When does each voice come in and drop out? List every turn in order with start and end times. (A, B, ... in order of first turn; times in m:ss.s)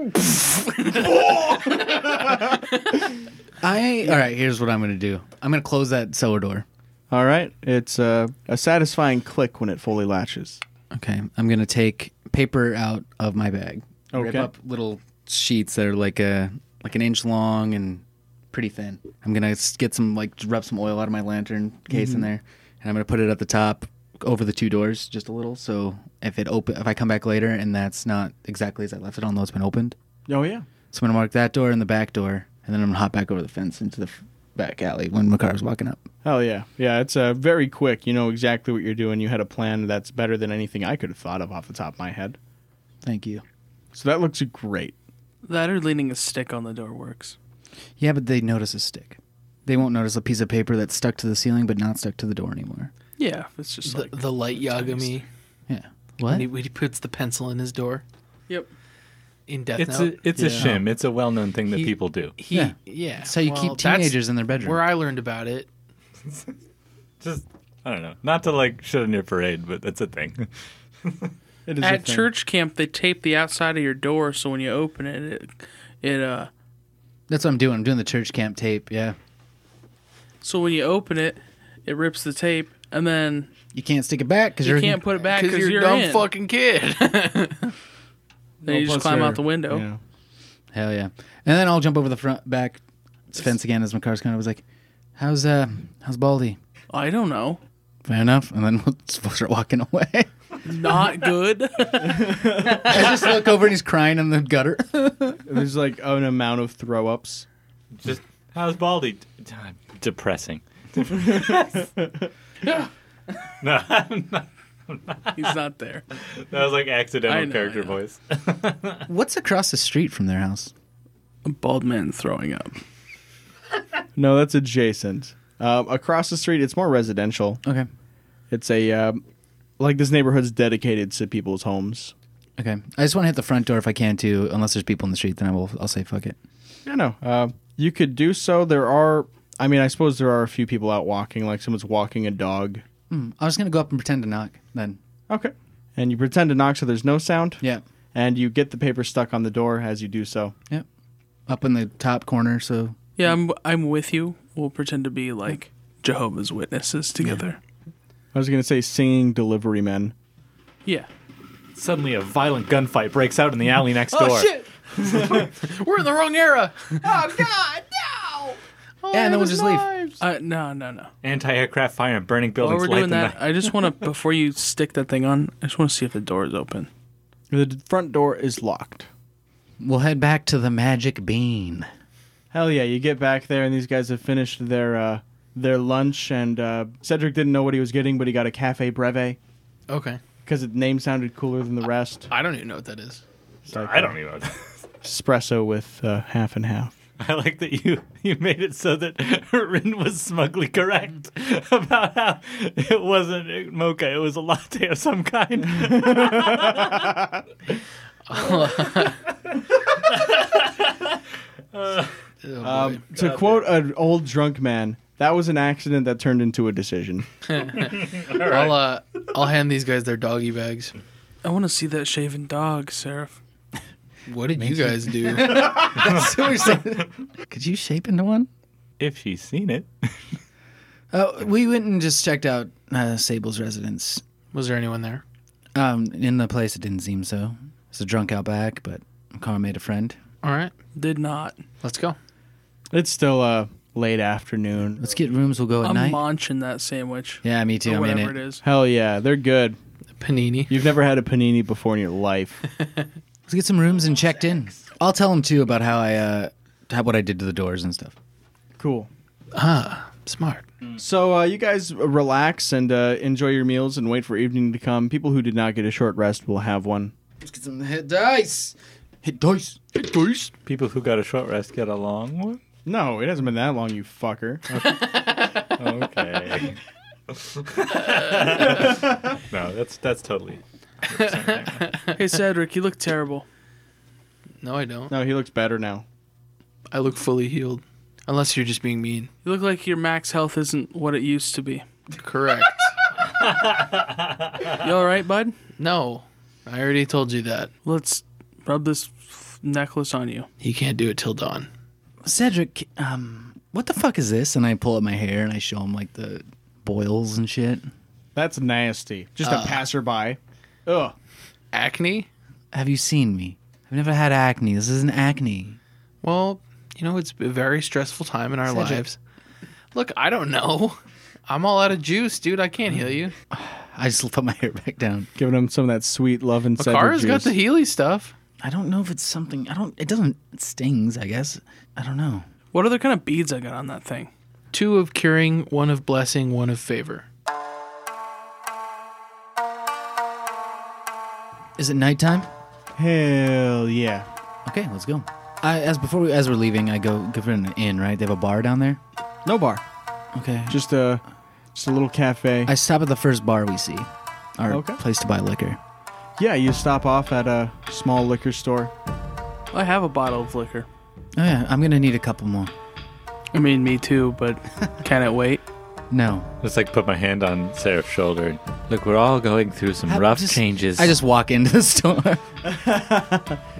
0:00.9-0:02.9 A
0:03.6-0:06.6 B
0:07.1-0:10.6 A
0:10.9-0:29.9 B
0:14.1-0:14.5 A
0:21.9-0:22.3 A
0:30.3-0:30.6 A
0:30.9-0:36.0 B
0:36.2-0:42.4 A
0:43.0-0:43.4 B
0:43.9-0:44.9 A
0:45.4-0:47.3 C
0:48.0-0:52.9 B
0:53.2-0:54.1 C
0:53.9-0:55.2 D
0:55.7-0:56.5 B
0:56.3-0:58.0 D
0:59.5-1:00.7 D
0:59.8-1:02.4 E
1:00.4-1:00.7 A
1:01.7-1:05.7 D
1:02.5-1:04.8 B
1:06.3-1:06.5 E
1:07.2-1:10.5 E
1:11.0-1:11.3 E
1:11.6-1:12.3 A
1:11.8-1:16.5 C
1:17.3-1:19.2 B
1:20.4-1:23.5 C
1:23.7-1:25.0 B
1:24.6-1:26.3 C
1:25.3-1:27.7 D
1:28.6-1:30.0 A
1:28.6-1:29.8 C
1:30.7-1:34.6 B
1:35.2-1:36.6 B
1:36.9-1:37.6 C
1:38.0-1:40.3 B
1:40.6-1:42.7 C
1:42.1-1:42.8 A
1:42.6-1:45.4 B
1:45.4-1:47.4 A
1:48.0-1:51.9 E
1:51.4-1:52.1 A
1:53.6-1:55.5 E
1:55.4-1:56.0 C
1:56.1-1:59.0 E
1:57.2-1:58.0 C
1:59.1-2:00.7 B
2:01.4-2:02.8 C
2:04.2-2:07.6 A
2:07.6-2:07.9 B
2:08.5-2:09.2 A
2:09.8-2:12.1 A
2:12.6-2:16.4 B
2:16.8-2:22.8 A
2:23.1-2:25.0 B
2:25.3-2:27.6 A
2:28.1-2:30.5 A
2:31.5-2:33.0 B
2:33.2-2:37.6 C
2:38.3-2:40.1 A
2:41.8-2:44.6 E
2:44.1-2:47.4 D
2:47.0-2:48.5 A
2:49.0-2:50.2 D
2:49.1-2:49.9 B
2:50.2-2:51.1 C
2:51.2-2:53.4 E
2:52.6-2:56.9 C
2:57.5-2:59.1 A
2:59.8-3:01.9 B
3:02.5-3:09.4 A
3:09.9-3:10.2 D
3:10.4-3:12.3 A
3:12.3-3:13.2 D
3:13.7-3:14.2 A
3:13.7-3:14.7 E
3:15.0-3:16.9 A
3:17.2-3:27.1 E
3:25.7-3:27.4 A
3:28.3-3:29.2 D
3:28.4-3:31.2 E
3:31.7-3:32.1 E
3:32.4-3:33.0 D
3:32.6-3:37.3 A
3:33.1-3:33.7 E
3:37.4-3:40.9 D
3:37.8-3:38.8 E
3:41.4-3:43.4 C
3:44.3-3:45.9 D
3:44.6-3:48.5 B
3:46.0-3:46.3 E
3:49.0-3:50.1 E
3:51.1-3:54.2 B
3:54.5-3:55.2 D
3:55.7-4:00.2 B
4:00.4-4:00.7 D
4:00.9-4:01.6 C
4:01.8-4:02.2 D
4:02.9-4:05.0 A
4:05.0-4:06.2 B
4:05.8-4:08.6 C
4:07.4-4:08.3 B
4:08.6-4:09.8 A
4:10.2-4:10.7 D
4:10.7-4:12.6 A
4:13.5-4:18.1 B
4:18.8-4:19.1 A
4:19.5-4:20.6 D
4:21.0-4:27.1 A
4:27.4-4:29.8 B
4:29.9-4:30.5 D
4:30.6-4:32.6 E
4:32.8-4:34.9 A
4:34.7-4:36.8 E
4:37.3-4:41.9 E
4:41.6-4:42.1 D
4:42.2-4:43.4 C
4:44.6-4:45.1 D
4:45.1-4:46.0 A
4:46.9-4:49.3 D
4:49.4-4:51.8 C
4:52.1-4:52.9 D
4:53.2-4:54.9 E
4:54.7-4:55.5 C
4:55.8-4:57.7 D
4:57.8-5:00.5 C
5:00.6-5:01.7 D
5:02.2-5:07.9 B
5:08.4-5:11.1 A
5:09.4-5:09.8 D
5:11.7-5:12.3 D
5:12.7-5:15.8 B
5:16.2-5:19.2 D
5:18.7-5:19.0 B
5:19.9-5:23.3 D
5:23.5-5:25.3 B
5:25.4-5:27.5 A
5:26.8-5:28.3 D
5:28.6-5:32.4 B
5:32.7-5:34.3 C
5:34.7-5:37.2 D
5:41.8-5:42.5 B
5:43.0-5:44.3 A
5:44.6-5:49.0 B
5:49.4-5:49.8 A
5:50.3-5:50.8 B
5:50.7-5:51.2 A
5:51.7-5:52.7 A
5:52.6-5:55.8 B
5:54.7-5:55.0 A
5:56.4-5:58.9 A
5:59.7-6:00.9 C
6:01.4-6:02.7 B
6:03.5-6:05.6 C
6:06.1-6:06.5 B
6:06.6-6:11.1 E
6:10.1-6:12.4 B
6:12.6-6:13.6 A